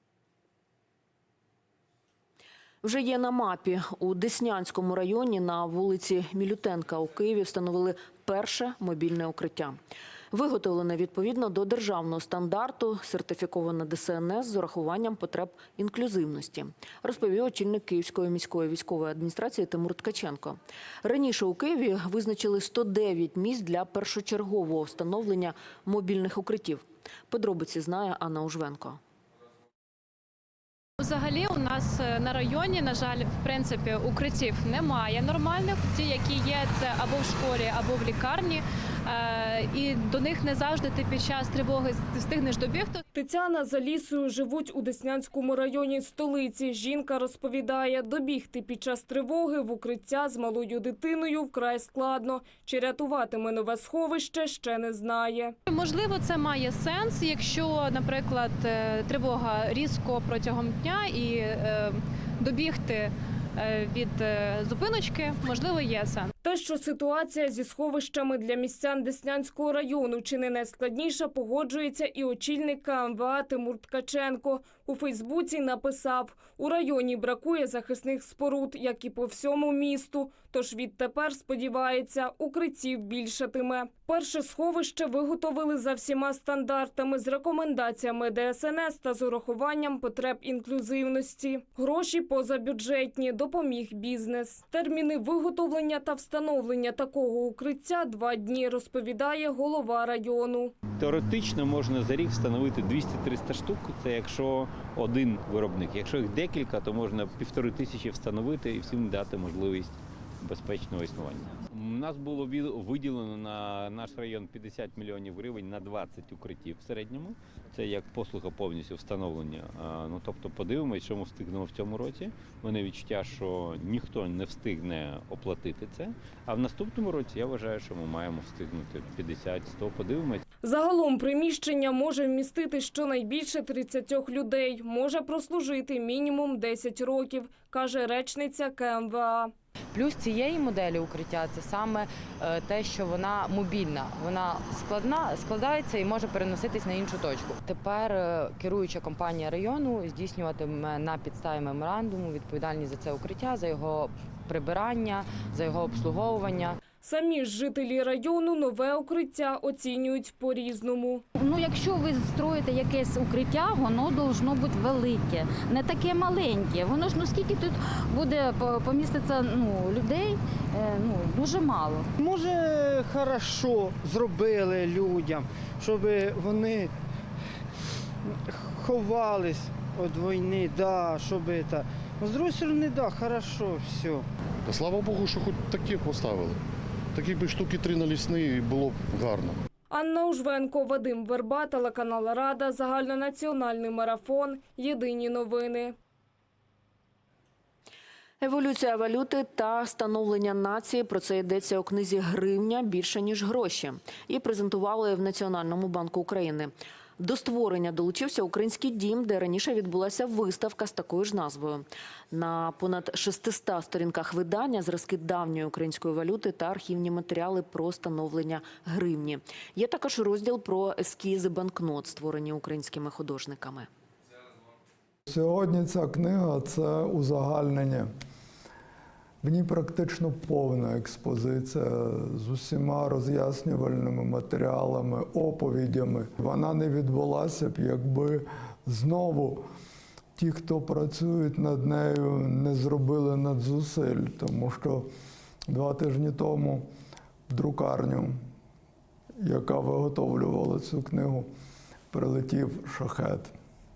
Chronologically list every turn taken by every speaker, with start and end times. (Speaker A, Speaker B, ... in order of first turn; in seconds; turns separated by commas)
Speaker A: 2.8-9.8, Speaker A: 10.3-29.0, Speaker B: 31.0-43.0, Speaker C: 43.1-55.5, Speaker B: 55.7-66.3, Speaker C: 66.4-100.7, Speaker D: 101.0-130.4, Speaker C: 130.6-139.5, Speaker E: 140.0-144.5, Speaker F: 143.7-145.6, Speaker E: 145.9-150.4, Speaker F: 150.7-151.4, Speaker E: 151.1-156.8, Speaker C: 157.0-161.2, Speaker F: 161.4-172.1, Speaker G: 172.2-176.9, Speaker G: 178.3-184.2, Speaker H: 184.7-186.6, Speaker H: 187.1-189.6, Speaker C: 189.9-195.9, Speaker A: 198.4-223.9, Speaker I: 225.3-228.1, Speaker I: 229.4-239.6, Speaker I: 240.4-245.1, Speaker I: 245.7-246.9, Speaker I: 247.5-248.4, Speaker I: 249.4-251.5, Speaker I: 252.1-253.5